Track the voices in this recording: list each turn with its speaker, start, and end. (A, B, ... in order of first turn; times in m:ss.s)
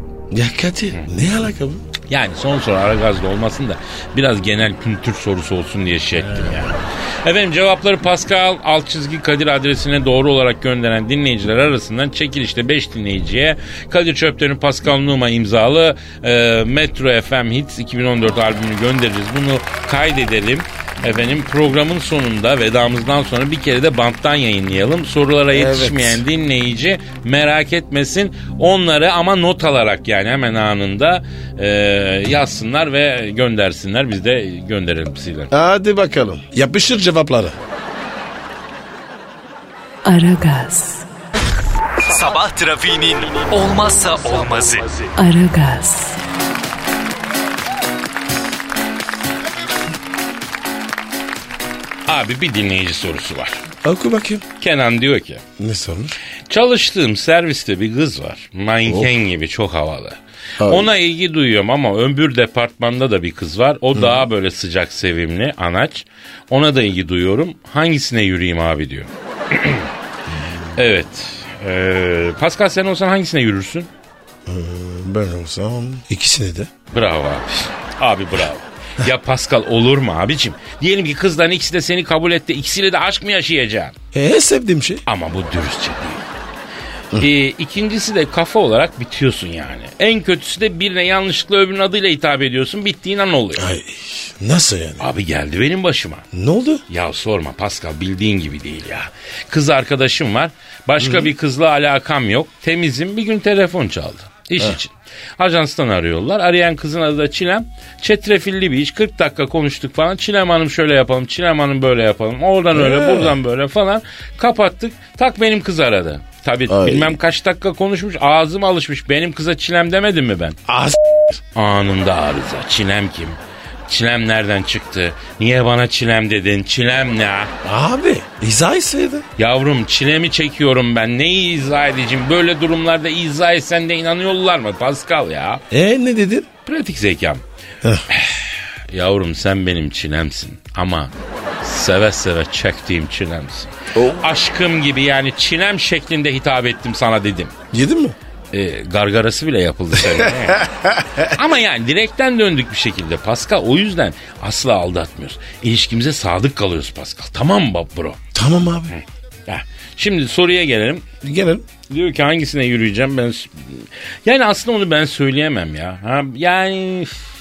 0:00.3-0:01.8 A
0:02.1-0:35.5 B
0:06.2-0:06.8 A
0:25.5-0:26.2 A
0:35.5-0:37.6 A
0:40.0-0:41.1 C
0:42.0-0:45.1 D
0:45.2-0:46.2 C
0:52.1-0:53.6 B
0:53.8-0:54.5 A
0:54.6-0:55.4 B
0:55.6-0:56.2 A
0:56.5-1:09.9 B
0:58.9-0:59.1 A
1:00.6-1:00.9 A
1:04.0-1:04.3 A
1:10.3-1:10.8 A
1:10.8-1:13.9 B
1:14.5-1:16.7 A
1:16.9-1:24.0 B
1:24.1-1:25.0 A
1:25.1-1:26.3 B
1:27.2-1:33.7 B
1:33.6-1:35.0 A
1:35.0-1:36.3 B
1:36.3-1:36.8 A
1:36.9-2:00.6 B
1:41.0-1:41.3 A
1:52.7-1:53.4 A
1:56.7-1:57.2 A
2:00.7-2:01.4 A
2:01.6-2:07.5 B
2:07.6-2:09.3 A
2:09.4-2:15.6 B
2:15.7-2:16.5 A
2:16.7-2:17.4 B
2:17.8-2:18.1 A
2:18.1-2:27.5 B
2:24.0-2:24.2 A
2:27.7-2:28.2 A
2:28.5-2:30.7 B
2:30.1-2:31.4 A
2:31.3-2:38.2 B
2:38.3-2:39.0 A
2:38.9-2:41.1 B
2:41.2-2:41.7 A
2:41.9-2:47.2 B